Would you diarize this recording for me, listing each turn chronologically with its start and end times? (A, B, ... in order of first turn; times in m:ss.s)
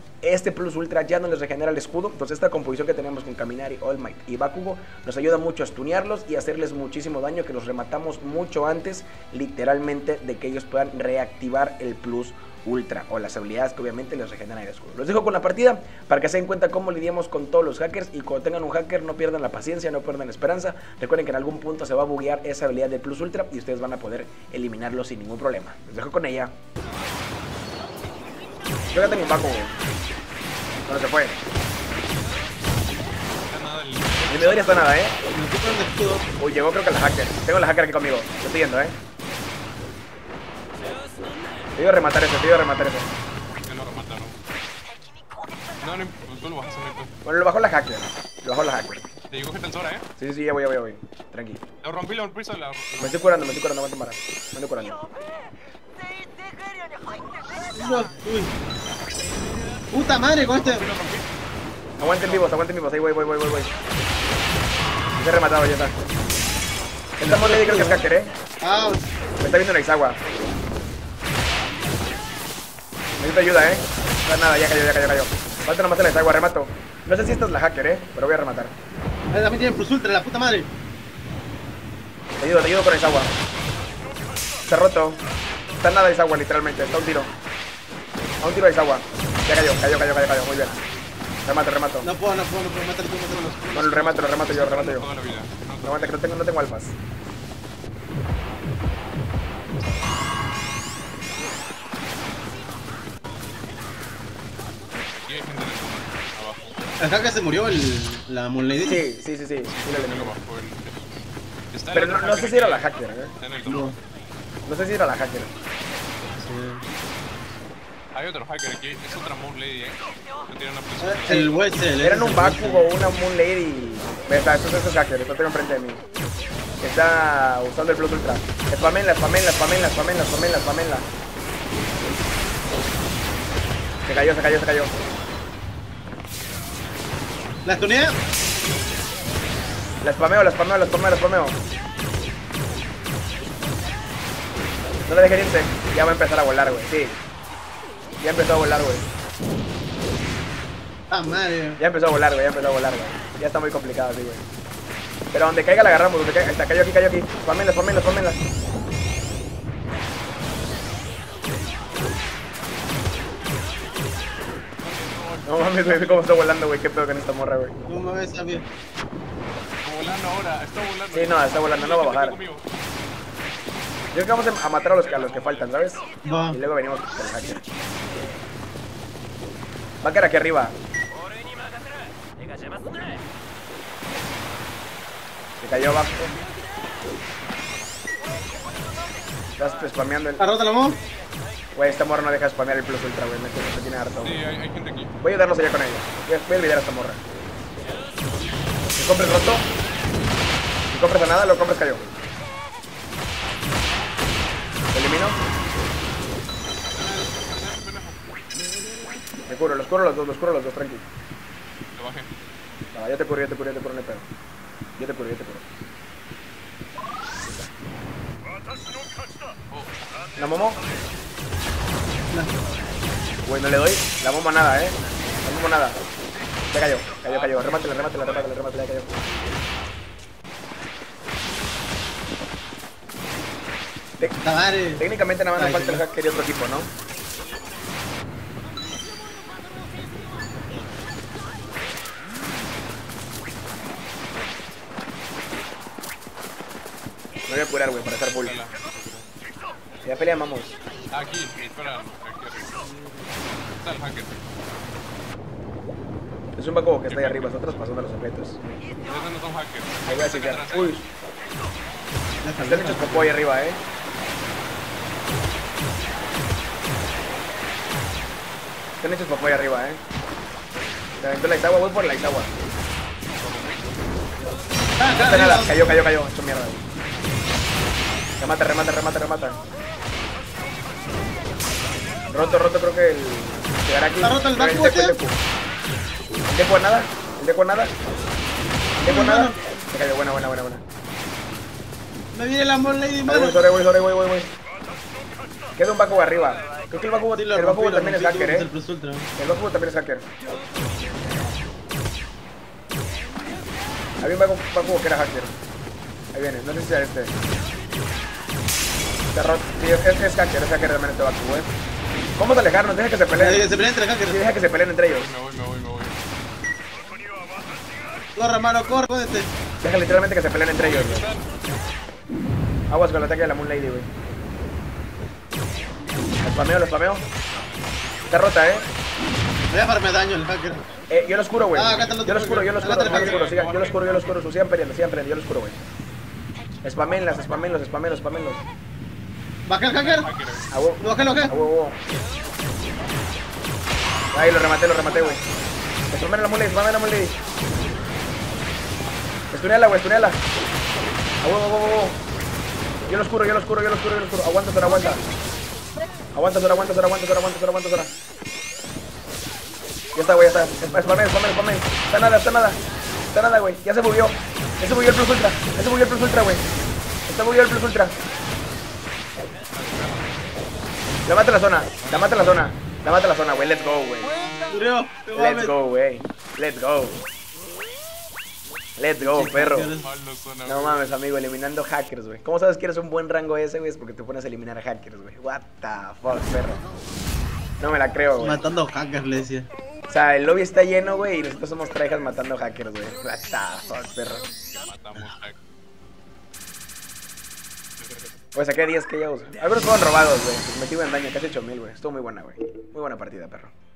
0:00.2-0:26.5 A
0:28.9-0:29.8 A
0:30.9-0:31.4 A
0:33.4-0:34.8 B
0:34.3-0:35.2 A
0:35.3-0:36.3 C
0:36.4-0:39.0 A
0:41.8-0:43.1 A
0:43.6-0:44.4 B
0:45.8-0:47.1 B
0:47.2-0:49.1 A
0:49.3-0:50.0 B
0:50.2-0:51.6 A
0:51.8-0:53.5 B
0:53.0-0:55.0 A
0:57.7-0:58.5 C
0:59.9-1:00.8 C
1:00.6-1:01.3 B
1:02.0-1:03.7 A
1:02.2-1:02.5 B
1:05.1-1:06.0 A
1:07.2-1:08.3 A
1:07.2-1:08.0 C
1:08.6-1:09.0 C
1:09.4-1:10.2 A
1:13.2-1:18.7 A
1:19.3-1:20.7 C
1:22.4-1:23.3 A
1:24.7-1:25.2 A
1:25.8-1:27.3 A
1:28.4-1:30.8 A
1:31.4-1:32.1 A
1:32.0-1:33.8 C
1:33.3-1:36.2 B
1:33.7-1:35.1 A
1:35.8-1:37.0 A
1:45.0-1:46.7 B
1:47.0-1:49.0 C
1:48.8-1:50.4 A
1:49.6-1:54.0 B
1:51.9-1:53.3 A
1:53.6-1:54.0 C
1:54.6-1:55.5 A
1:56.4-1:56.8 C
1:58.1-2:01.6 B
2:01.0-2:02.9 C
2:02.0-2:06.0 A
2:06.8-2:11.1 A
2:14.0-2:15.0 A
2:17.6-2:18.2 C
2:20.0-2:21.6 A
2:25.1-2:27.2 A
2:28.2-2:29.0 A
2:31.1-2:31.8 C
2:31.8-2:34.4 A
2:35.3-2:38.4 A
2:44.8-2:46.0 B
2:45.4-2:47.8 A
2:47.9-2:48.6 C
2:49.8-2:52.6 B
2:51.1-2:52.4 A
2:54.1-2:57.6 A
2:54.9-2:55.7 B
2:56.2-2:56.6 C
3:00.0-3:00.8 A
3:05.6-3:06.4 A
3:09.6-3:10.4 A
3:10.4-3:11.0 C
3:11.8-3:14.4 A
3:14.2-3:15.1 B
3:15.2-3:17.2 A
3:18.3-3:18.7 B
3:18.9-3:19.6 A
3:20.9-3:22.0 A
3:24.9-3:25.4 A
3:26.9-3:28.2 B
3:29.5-3:31.0 A
3:31.9-3:32.3 B
3:32.9-3:34.3 A
3:35.0-3:35.6 A
3:39.7-3:40.0 B
3:40.4-3:40.8 A
3:43.4-3:46.0 A
3:46.7-3:49.1 A
3:47.2-3:48.5 B
3:54.3-3:55.0 C
3:55.0-3:56.9 A
3:55.6-3:56.0 C
4:07.5-4:08.6 A
4:08.2-4:09.3 B
4:10.0-4:10.8 A
4:11.1-4:12.8 B
4:13.8-4:14.4 B
4:16.5-4:18.6 A
4:17.1-4:17.7 B
4:19.0-4:21.0 B
4:20.1-4:21.1 A
4:22.4-4:23.4 C
4:22.6-4:23.8 A
4:29.0-4:30.0 A
4:31.2-4:32.5 A
4:33.4-4:33.9 B
4:35.0-4:35.8 C
4:35.2-4:36.8 A
4:38.4-4:39.6 A
4:42.3-4:45.4 A
4:44.2-4:45.2 C
4:46.5-4:47.9 A
4:49.0-4:50.8 A
4:49.0-4:49.7 C
4:52.3-4:53.6 C
4:53.2-4:54.5 A
4:55.8-4:58.7 A
4:57.3-4:59.3 C
4:59.4-5:00.2 A
5:04.2-5:05.6 A
5:06.3-5:07.3 A
5:09.3-5:11.7 A
5:12.4-5:13.7 A
5:13.3-5:14.4 C
5:14.2-5:15.3 A
5:15.1-5:16.2 B
5:18.3-5:19.5 C
5:19.8-5:21.3 A
5:20.8-5:21.4 B
5:22.9-5:24.1 A
5:26.4-5:27.2 A
5:27.6-5:28.3 B
5:28.3-5:28.8 A
5:29.7-5:30.9 C
5:31.1-5:35.8 A
5:31.7-5:33.5 C
5:33.0-5:34.2 B
5:36.8-5:38.6 A
5:39.6-5:40.3 C
5:40.0-5:40.7 B
5:40.7-5:42.0 A
5:41.0-5:41.5 C
5:44.3-5:45.4 A
5:46.1-5:47.4 A
5:49.5-5:50.4 A
5:51.4-5:52.2 A
5:53.1-5:55.2 A
5:56.3-5:58.1 A
6:00.1-6:02.8 A
6:03.3-6:06.6 A
6:07.3-6:08.1 A
6:09.7-6:10.4 B
6:11.2-6:14.3 A
6:12.0-6:12.7 B
6:14.7-6:15.7 C
6:15.3-6:17.2 A
6:19.0-6:19.9 A
6:19.2-6:20.1 C
6:20.0-6:21.1 B
6:20.6-6:26.8 A
6:27.8-6:28.6 A
6:28.4-6:29.7 C
6:30.1-6:34.5 A
6:34.8-6:35.6 B
6:38.5-6:43.7 A